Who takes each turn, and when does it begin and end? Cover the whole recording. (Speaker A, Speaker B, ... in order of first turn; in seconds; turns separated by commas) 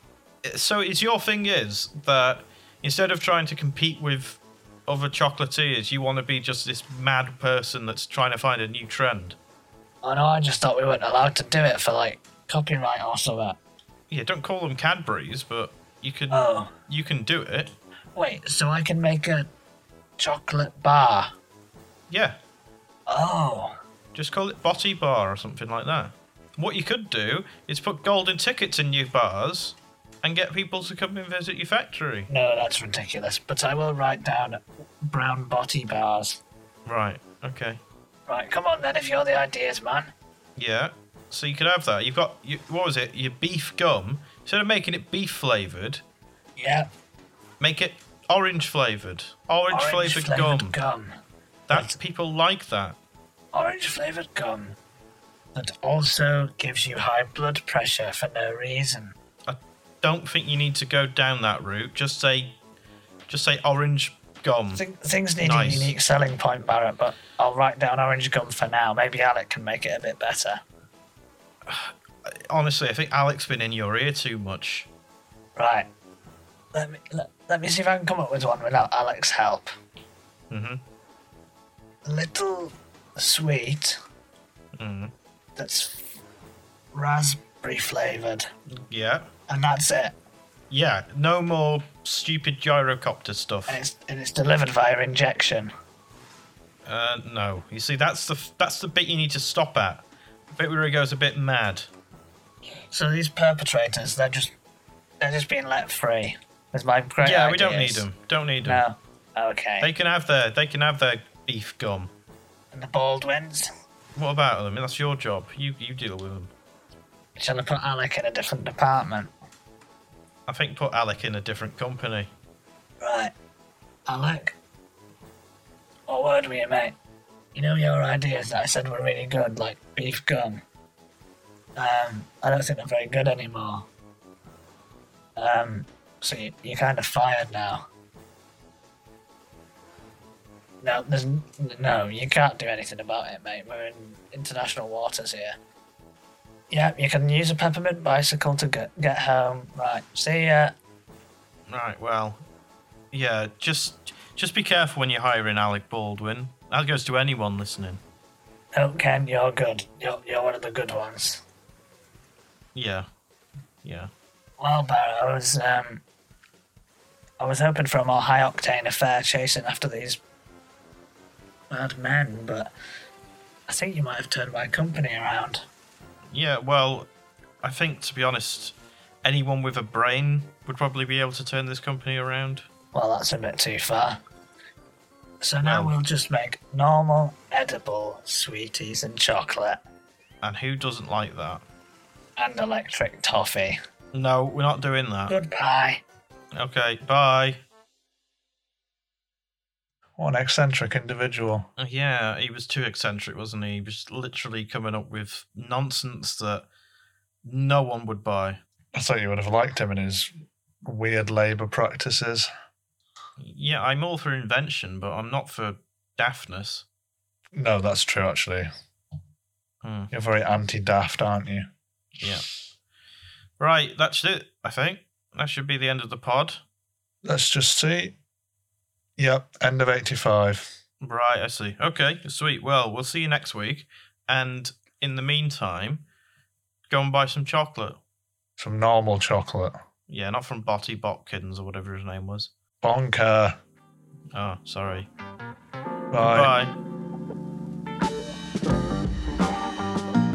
Speaker A: 0.4-9.4, Speaker B: 10.0-13.6, Speaker A: 14.1-17.7, Speaker B: 16.3-16.7, Speaker B: 18.2-19.5, Speaker B: 20.2-21.3, Speaker A: 22.1-22.4, Speaker B: 23.1-23.8, Speaker A: 24.1-32.3, Speaker B: 32.3-36.4, Speaker A: 36.9-37.8, Speaker B: 38.3-40.1, Speaker A: 40.6-46.0, Speaker B: 46.6-46.9, Speaker A: 47.6-50.8, Speaker B: 49.7-51.1, Speaker A: 51.7-53.0, Speaker B: 51.7-52.0, Speaker B: 53.5-54.8, Speaker B: 55.5-59.1, Speaker A: 59.5-62.6, Speaker A: 63.3-64.8, Speaker B: 64.7-70.6, Speaker A: 65.4-66.0, Speaker A: 71.7-74.9, Speaker B: 75.6-75.9, Speaker B: 76.7-79.7, Speaker A: 80.5-80.8, Speaker B: 82.0-84.0, Speaker A: 84.8-85.1, Speaker B: 85.6-86.0, Speaker B: 86.9-88.5, Speaker A: 88.7-89.3, Speaker B: 89.5-90.2, Speaker A: 90.7-93.8, Speaker B: 93.7-95.7, Speaker A: 96.8-101.9, Speaker B: 102.9-104.5, Speaker B: 105.2-108.1, Speaker A: 107.2-108.8, Speaker B: 108.6-109.9, Speaker A: 109.8-112.1, Speaker B: 112.7-113.7, Speaker A: 114.2-116.5, Speaker B: 117.4-119.3, Speaker A: 120.5-122.3, Speaker B: 123.0-123.3, Speaker B: 124.1-124.6, Speaker B: 126.1-127.0, Speaker B: 127.5-130.6, Speaker B: 131.8-133.9, Speaker B: 135.4-137.9, Speaker B: 140.8-145.6, Speaker B: 146.7-150.7, Speaker A: 151.7-152.4, Speaker A: 153.1-158.0, Speaker B: 158.7-161.4, Speaker A: 162.8-163.1, Speaker A: 163.8-164.1, Speaker B: 164.6-166.0, Speaker B: 167.4-170.2, Speaker B: 171.7-172.7, Speaker B: 173.7-175.7, Speaker A: 176.3-177.1, Speaker A: 177.6-182.7, Speaker B: 182.9-184.2, Speaker B: 185.4-189.8, Speaker A: 185.6-185.9, Speaker A: 190.4-191.6, Speaker B: 192.4-193.8, Speaker A: 194.1-195.3, Speaker B: 195.3-196.0, Speaker A: 196.6-197.6, Speaker C: 200.2-201.7, Speaker A: 201.8-206.7, Speaker A: 207.4-208.6, Speaker C: 208.9-210.3, Speaker C: 210.8-212.5, Speaker A: 213.4-216.8, Speaker C: 217.5-218.7, Speaker A: 219.8-220.1, Speaker C: 220.1-221.7, Speaker A: 222.2-222.5, Speaker A: 223.6-226.6, Speaker C: 227.2-228.2, Speaker C: 229.2-230.7, Speaker A: 231.0-236.0, Speaker A: 236.9-238.0, Speaker C: 238.6-239.8, Speaker A: 240.1-242.5, Speaker C: 242.8-243.6, Speaker A: 244.3-245.1, Speaker C: 246.1-246.5, Speaker A: 246.2-246.7